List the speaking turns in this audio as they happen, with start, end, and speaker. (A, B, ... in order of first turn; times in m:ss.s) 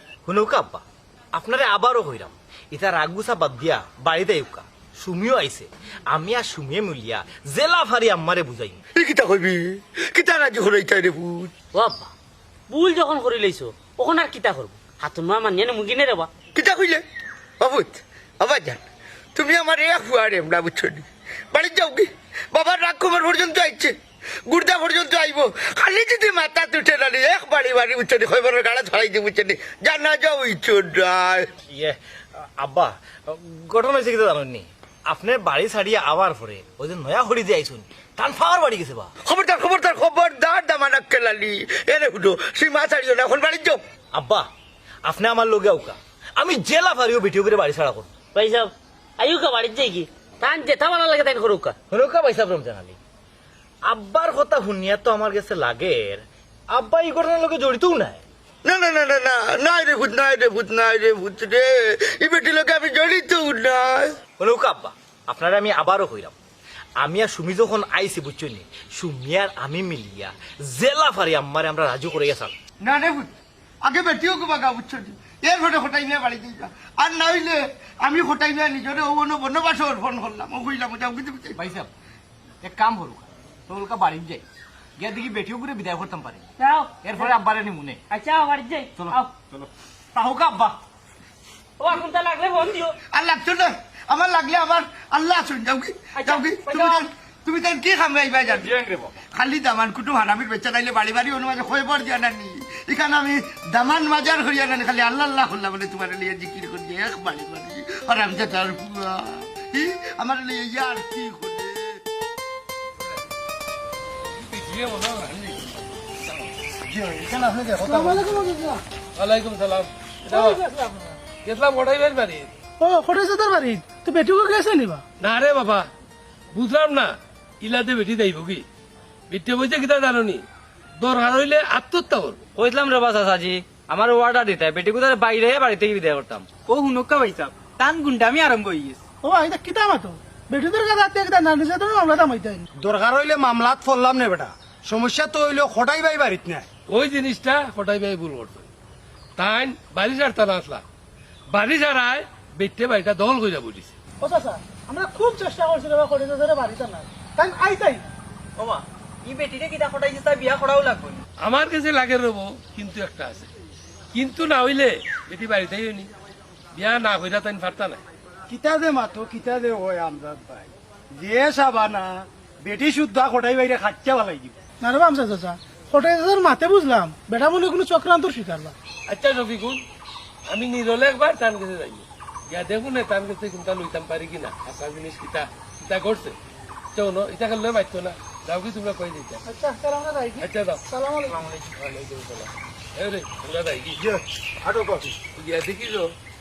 0:00.2-0:08.8 A
0:08.9-0:11.5 B
0:11.7-0:12.1 C
0:12.7-0:16.3 C
0:16.5-0:17.0 B
0:17.6-0:18.8 B
0:19.3-0:23.9 B
0:24.5-0:31.5 B
0:31.7-0:39.1 A
0:39.2-0:43.8 B
0:44.1-0:44.5 A
0:45.0-0:48.1 A
0:48.3-0:51.8 C
0:51.9-0:53.0 A
0:53.8-0:58.2 A
0:58.6-1:04.2 B
1:04.4-1:06.3 A
1:07.0-1:12.5 A
1:12.8-1:21.6 B
1:21.5-1:21.9 A
1:22.6-1:24.4 A
1:25.0-1:26.4 A
1:26.6-1:27.3 C
1:27.0-1:28.0 A
1:28.1-1:29.3 C
1:29.0-1:30.8 A
1:31.8-1:32.9 C
1:33.1-1:38.8 B
1:36.2-1:37.0 C
1:38.6-1:39.1 A
1:39.3-1:52.0 B
1:54.3-1:56.2 D
1:56.9-1:58.2 E
1:57.8-1:58.8 F
1:59.2-2:00.6 D
2:00.2-2:01.2 F
2:01.4-2:02.5 D
2:02.8-2:05.0 F
2:05.2-2:05.9 D
2:06.5-2:08.6 D
2:09.3-2:10.4 D
2:11.0-2:12.4 D
2:12.6-2:16.4 G
2:16.6-2:19.0 H
2:19.2-2:22.7 F
2:22.8-2:26.6 E
2:26.9-2:28.7 D
2:29.4-2:30.8 D
2:31.5-2:33.9 D
2:34.2-2:38.1 F
2:38.6-2:41.2 H
2:41.4-2:43.5 D
2:44.1-2:46.1 D
2:46.7-2:48.0 D
2:48.5-2:54.6 E
2:54.8-2:58.7 F
2:59.1-2:59.8 D
3:00.5-3:06.4 D
3:06.9-3:09.4 D
3:09.4-3:11.4 F
3:10.4-3:10.8 D
3:11.8-3:14.0 D
3:14.0-3:15.1 E
3:15.4-3:16.1 D